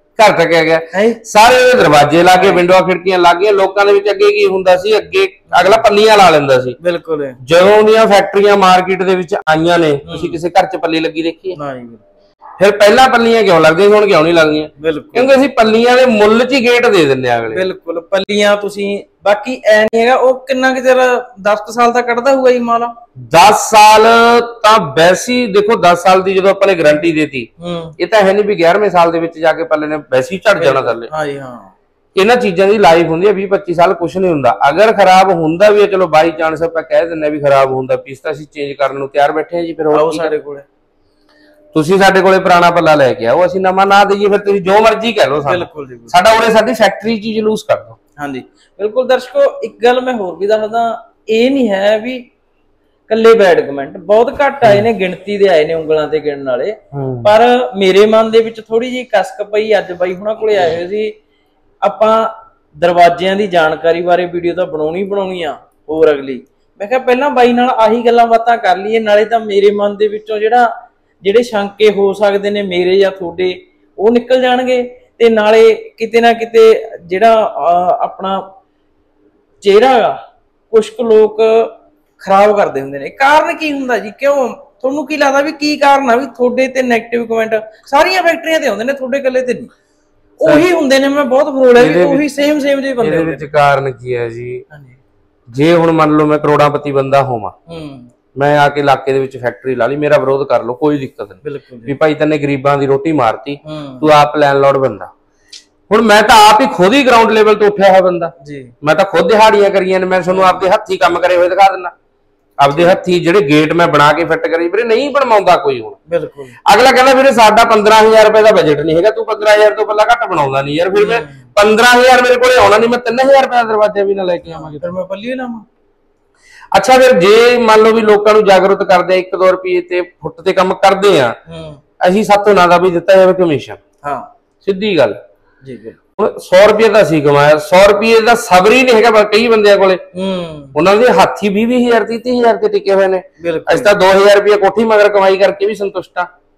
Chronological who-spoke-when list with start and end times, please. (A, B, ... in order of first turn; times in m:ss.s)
0:00.2-0:06.8 A
0:00.9-0:01.2 B
0:02.3-0:02.6 B
0:05.5-0:05.8 B
0:06.8-0:07.4 B
0:07.4-0:11.6 A
0:10.0-0:10.4 B
0:11.5-0:12.1 B
0:12.6-0:17.6 A
0:14.8-0:15.3 B
0:17.5-0:22.9 B
0:23.2-0:31.1 A
0:27.6-0:28.0 B
0:30.6-0:31.7 B
0:32.1-0:40.3 A
0:39.9-0:40.6 B
0:41.7-0:48.0 A
0:45.4-0:46.1 B
0:48.2-0:52.3 B
0:53.1-1:01.1 B
0:56.9-0:57.3 A
1:01.8-1:10.7 B
1:11.2-1:18.4 B
1:19.6-1:20.2 B
1:20.7-1:29.7 B
1:30.4-1:33.5 B
1:31.8-1:32.2 A
1:33.0-1:34.6 A
1:34.7-1:35.0 B
1:35.5-1:37.5 A
1:37.7-1:38.1 B
1:38.3-1:45.1 A
1:41.4-1:41.9 B
1:43.6-1:44.0 B
1:45.9-1:51.9 A
1:48.4-1:48.7 B
1:50.3-1:50.6 B
1:52.6-1:56.0 A
1:56.1-1:56.6 B
1:56.6-2:04.9 A
2:00.9-2:01.4 B
2:04.5-2:05.6 B
2:06.7-2:11.4 A
2:11.5-2:11.8 B
2:12.0-2:13.8 A
2:14.0-2:14.3 B
2:14.6-2:15.2 A
2:15.6-2:16.0 B
2:16.2-2:20.0 A
2:20.1-2:20.7 B
2:20.7-2:26.3 A
2:23.4-2:23.9 B